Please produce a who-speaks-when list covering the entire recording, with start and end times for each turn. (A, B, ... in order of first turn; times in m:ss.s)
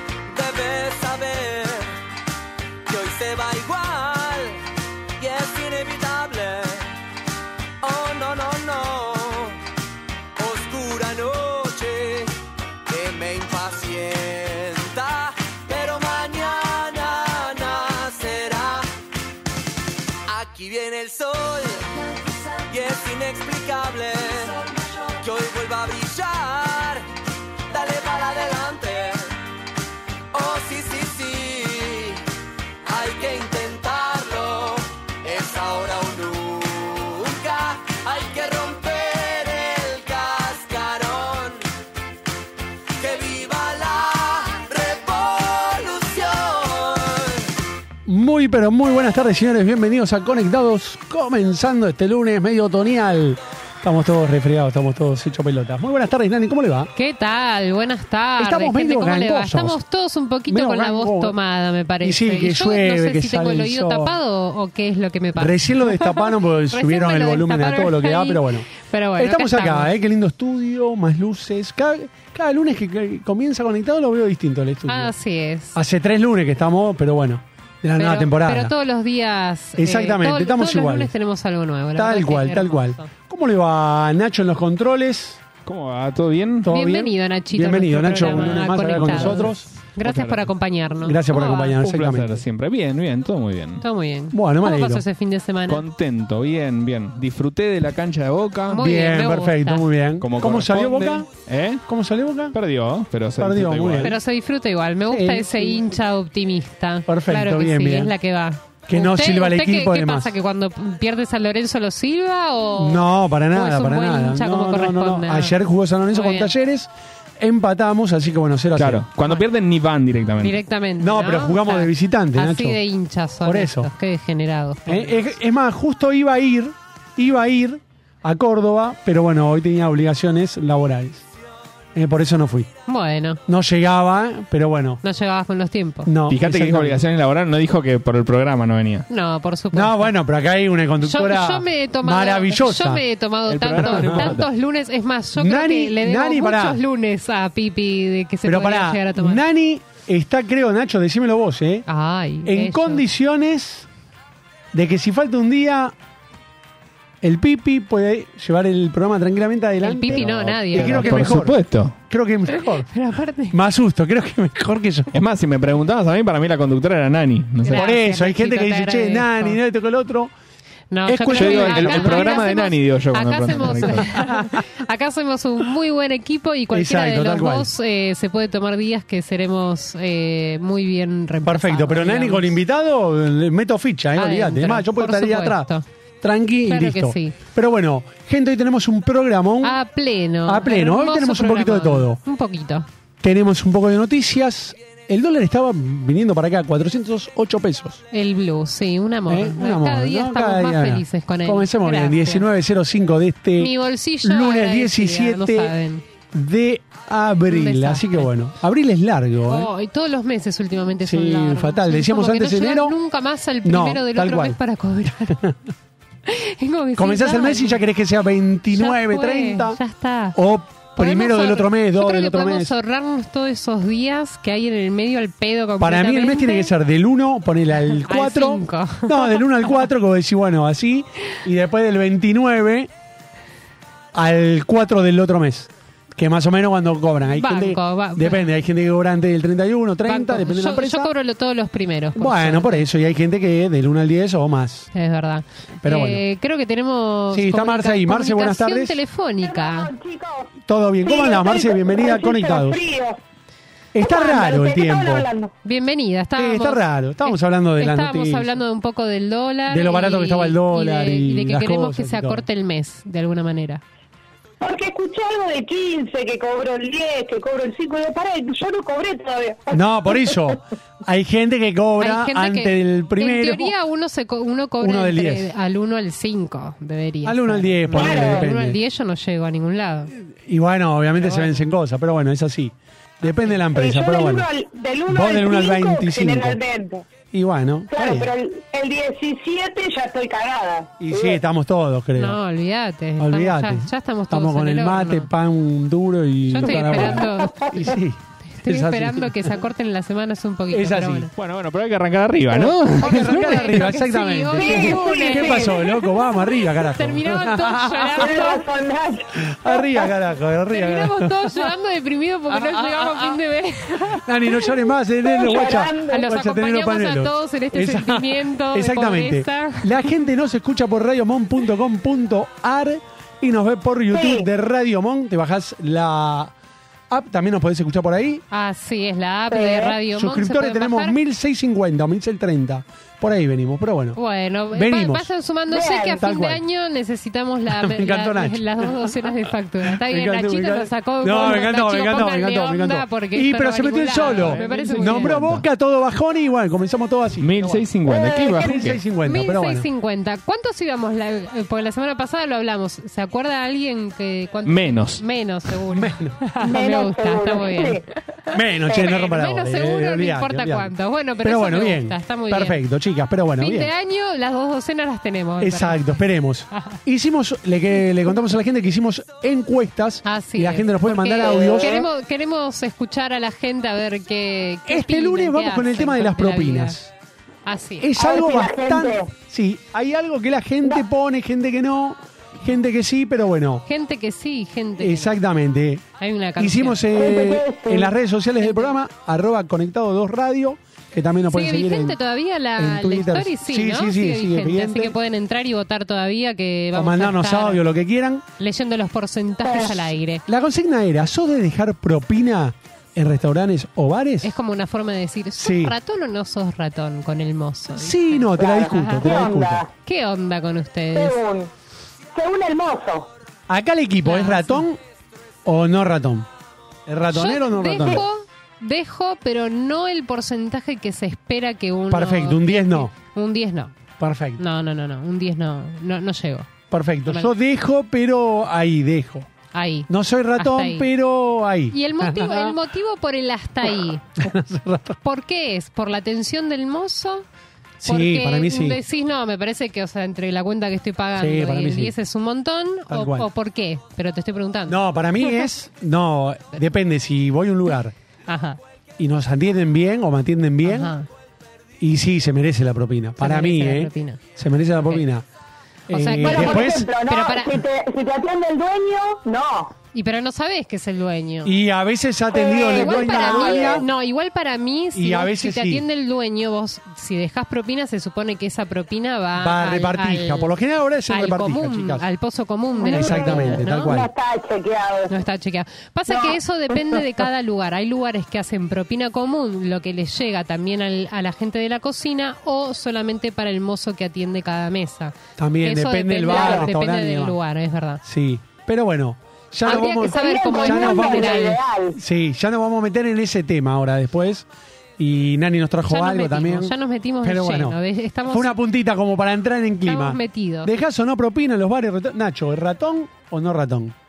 0:00.3-0:01.9 A
0:02.9-0:04.6 A
0:05.2-0:06.9 A
0:07.8-0:09.6 A
0:10.4-0:12.3 A
0:12.9-0:18.9 A
0:20.3-0:27.1 A
0:27.7-0:29.4 A
0:30.3-0:32.2 A
0:32.8-0:41.6 A
0:43.0-0:47.4 A
0:48.0-0:56.9 B
0:57.0-1:09.9 C
0:58.4-0:59.8 B
1:00.5-1:01.4 B
1:02.0-1:04.2 B
1:05.4-1:15.1 B
1:14.9-1:15.8 C
1:15.7-1:18.7 B
1:18.0-1:23.1 C
1:19.8-1:21.1 B
1:21.9-1:25.4 B
1:25.6-1:26.7 D
1:26.6-1:29.7 B
1:26.7-1:31.7 C
1:28.2-1:30.5 D
1:31.0-1:32.4 B
1:31.4-1:33.8 D
1:33.8-1:35.8 C
1:34.3-1:35.0 B
1:35.7-1:38.8 D
1:38.7-1:39.9 C
1:38.8-1:41.3 B
1:40.2-1:41.8 D
1:41.9-1:42.6 B
1:42.5-1:44.1 D
1:43.4-1:44.1 B
1:44.0-1:55.6 C
1:45.0-1:45.8 B
1:47.1-1:48.1 B
1:48.9-1:50.4 B
1:52.8-1:59.0 B
1:56.1-1:56.5 C
1:58.8-2:00.6 D
2:00.4-2:05.2 C
2:01.0-2:02.8 B
2:03.4-2:03.9 B
2:04.8-2:11.2 B
2:11.9-2:12.7 B
2:12.9-2:13.4 C
2:13.5-2:15.0 B
2:15.0-2:16.1 C
2:16.0-2:17.0 B
2:16.3-2:19.1 D
2:19.1-2:20.1 C
2:19.7-2:23.0 B
2:21.0-2:29.4 C
2:23.5-2:24.5 D
2:23.7-2:24.4 B
2:25.4-2:26.8 B
2:28.4-2:31.8 B
2:31.9-2:33.0 C
2:32.4-2:33.9 B
2:34.7-2:35.9 B
2:37.2-2:42.9 B
2:39.8-2:41.4 C
2:40.1-2:42.0 D
2:42.5-2:43.6 C
2:43.5-2:45.1 B
2:45.1-2:47.9 D
2:47.6-2:49.6 C
2:47.7-2:50.3 B
2:50.9-3:02.6 C
2:51.0-2:52.4 B
2:51.3-2:54.2 D
2:54.0-2:54.4 B
2:56.7-2:57.7 B
3:01.4-3:05.7 B
3:04.2-3:05.8 C
3:06.2-3:09.8 B
3:06.7-3:07.4 C
3:09.6-3:12.9 C
3:10.4-3:12.2 B
3:13.2-3:18.0 B
3:18.1-3:22.4 C
3:19.3-3:25.7 B
3:23.6-3:26.0 C
3:26.3-3:29.7 B
3:27.5-3:28.3 C
3:29.5-3:35.4 C
3:31.0-3:33.0 B
3:33.6-3:34.6 B
3:36.2-3:37.8 C
3:37.0-3:39.8 B
3:38.7-3:40.4 C
3:40.3-3:42.7 B
3:40.9-3:46.7 C
3:45.8-3:52.9 B
3:48.1-3:49.4 C
3:54.1-4:01.1 B
3:57.4-3:58.5 C
4:00.0-4:02.8 C
4:02.2-4:04.9 B
4:04.9-4:09.9 C
4:05.8-4:06.2 B
4:07.3-4:09.0 B
4:09.4-4:10.5 E
4:10.7-4:12.8 B
4:11.0-4:13.2 E
4:13.9-4:15.3 B
4:14.0-4:15.5 E
4:15.6-4:23.8 C
4:16.4-4:18.5 B
4:19.7-4:22.4 B
4:24.6-4:30.4 E
4:29.7-4:33.7 B
4:32.0-4:40.1 C
4:34.8-4:35.5 B
4:37.2-4:38.8 B
4:37.9-4:38.4 E
4:40.2-4:44.5 B
4:41.2-4:41.6 C
4:43.7-4:47.0 E
4:45.1-4:46.6 B
4:47.3-4:48.3 B
4:47.9-4:51.4 E
4:51.0-4:52.4 B
4:52.2-4:55.3 C
4:53.2-4:59.5 B
4:56.5-4:57.7 C
4:57.0-4:57.3 E
4:58.6-5:01.3 C
5:00.7-5:01.3 B
5:01.4-5:03.6 D
5:02.9-5:08.3 B
5:03.1-5:08.6 C
5:04.6-5:05.8 E
5:08.2-5:10.0 E
5:09.4-5:11.7 B
5:10.7-5:14.7 C
5:12.5-5:13.4 B
5:14.2-5:26.5 B
5:15.3-5:16.2 E
5:16.1-5:20.1 C
5:24.1-5:24.4 E
5:27.1-5:28.4 B
5:28.5-5:31.2 C
5:29.5-5:30.0 E
5:30.1-5:34.2 B
5:34.2-5:45.4 C
5:34.7-5:35.3 B
5:35.7-5:36.2 E
5:36.0-5:36.6 B
5:37.7-5:39.1 B
5:39.8-5:47.9 B
5:44.2-5:45.6 D
5:47.4-5:49.0 D
5:48.1-5:48.7 E
5:48.5-5:49.9 B
5:49.2-5:58.0 C
5:54.6-5:55.2 D
5:55.9-5:56.4 B
5:56.6-5:58.0 E
5:58.5-6:03.9 B
5:58.9-5:59.2 E
5:58.9-6:02.8 C
6:03.6-6:06.0 C
6:05.6-6:12.0 B
6:10.2-6:17.0 C
6:11.4-6:12.0 E
6:14.9-6:17.1 B
6:17.6-6:18.1 C
6:18.0-6:23.8 B
6:18.2-6:19.3 E
6:23.9-6:25.3 C
6:25.0-6:26.0 B
6:26.2-6:27.1 C
6:26.6-6:32.2 B
6:27.2-6:28.1 E
6:28.6-6:28.9 C
6:31.5-6:37.8 C
6:32.8-6:35.2 B
6:36.9-6:38.4 B
6:38.6-6:40.4 C
6:39.6-6:40.0 E
6:40.5-6:44.5 B
6:44.4-6:49.2 C
6:45.6-6:46.0 B
6:47.9-6:49.8 B
6:48.6-6:49.9 E
6:50.0-6:51.4 C
6:51.1-6:51.7 E
6:52.3-6:53.3 E
6:53.7-6:55.0 B
6:54.2-6:54.8 C
6:55.6-6:56.5 B
6:57.1-6:58.2 B
6:57.3-7:03.9 C
7:02.1-7:03.1 B
7:04.2-7:04.6 B
7:04.6-7:06.7 C
7:06.9-7:09.5 B
7:07.3-7:07.5 C
7:09.7-7:11.1 C
7:10.1-7:12.8 B
7:11.9-7:14.5 C
7:14.4-7:15.2 B
7:15.2-7:17.4 C
7:18.0-7:19.0 B
7:18.0-7:25.0 C
7:21.4-7:22.1 B
7:23.1-7:23.5 B
7:24.9-7:28.1 B
7:28.5-7:28.8 C
7:29.2-7:31.1 B
7:30.8-7:31.3 C
7:32.0-7:35.4 B
7:33.4-7:34.4 C
7:36.1-7:37.1 B
7:36.1-7:37.8 C
7:36.4-7:39.9 E
7:40.1-7:41.7 C
7:41.6-7:44.1 B
7:42.5-7:44.0 E
7:42.9-7:50.7 C
7:45.1-7:46.0 B
7:49.5-7:52.3 B
7:51.3-7:54.2 C
7:53.0-7:55.3 E
7:53.0-7:54.3 B
7:55.3-8:08.2 C
7:56.3-7:57.2 E
8:05.6-8:07.6 B
8:06.5-8:06.8 E
8:08.2-8:14.7 B
8:09.8-8:11.8 C
8:09.8-8:12.2 E
8:15.2-8:24.1 B
8:16.0-8:18.8 C
8:20.0-8:20.9 C